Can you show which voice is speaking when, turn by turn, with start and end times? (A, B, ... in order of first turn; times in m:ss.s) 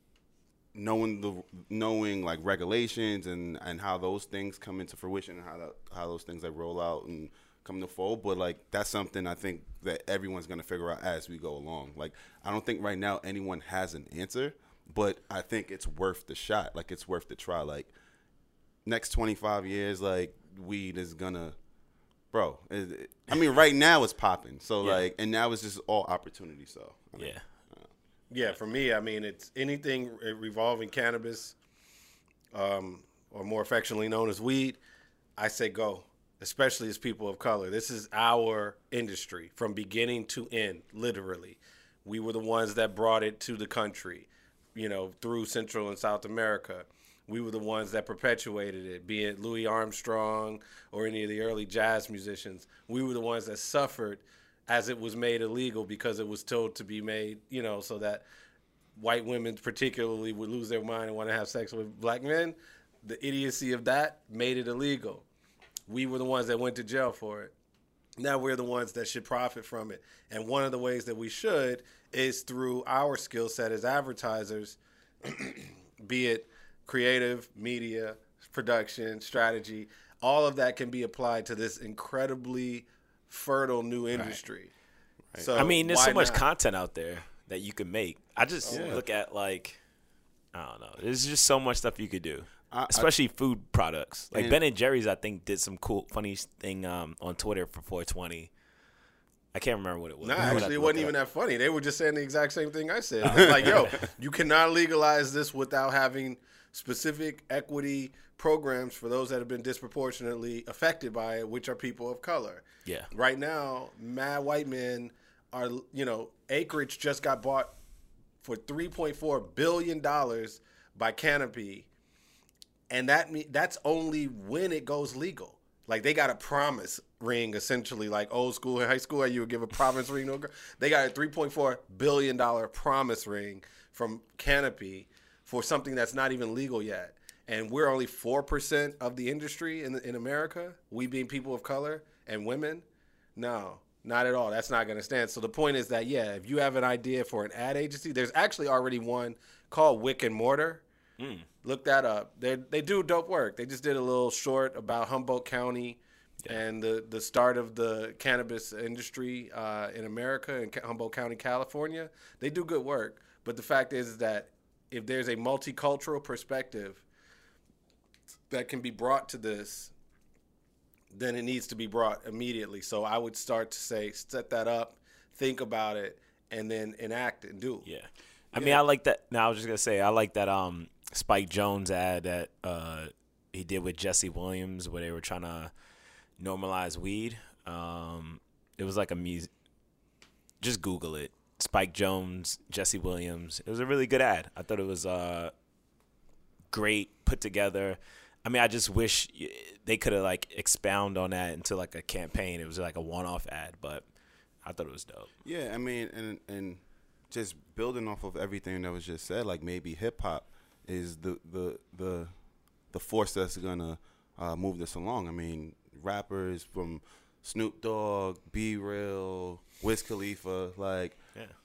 0:00.7-0:17.9 A
0:18.8-0:21.6 A
0:22.3-0:27.9 A
0:27.2-0:27.4 B
0:28.3-0:31.6 C
0:32.5-0:34.8 C
0:35.4-0:58.2 C
0:59.0-1:05.2 C
1:05.9-1:07.5 C
1:08.2-1:24.7 C
1:25.4-1:26.4 C
1:25.5-1:29.8 B
1:28.6-1:29.0 C
1:28.7-1:29.0 A
1:30.5-1:38.5 B
1:32.7-1:33.1 A
1:34.3-1:34.6 A
1:39.5-1:41.1 B
1:40.2-1:57.7 C
1:40.4-1:40.7 A
1:43.2-1:44.0 B
1:52.8-1:53.1 B
1:58.4-2:01.9 C
2:02.9-2:22.8 C
2:23.4-2:30.8 C
2:31.2-2:31.5 B
2:31.6-2:47.0 C
2:48.5-2:49.9 C
2:51.1-2:57.8 C
2:57.8-3:05.7 B
2:58.5-2:58.8 C
3:06.4-3:09.5 B
3:10.6-3:15.5 B
3:16.7-3:24.0 B
3:24.6-3:25.3 B
3:25.4-3:32.3 A
3:32.9-3:41.2 A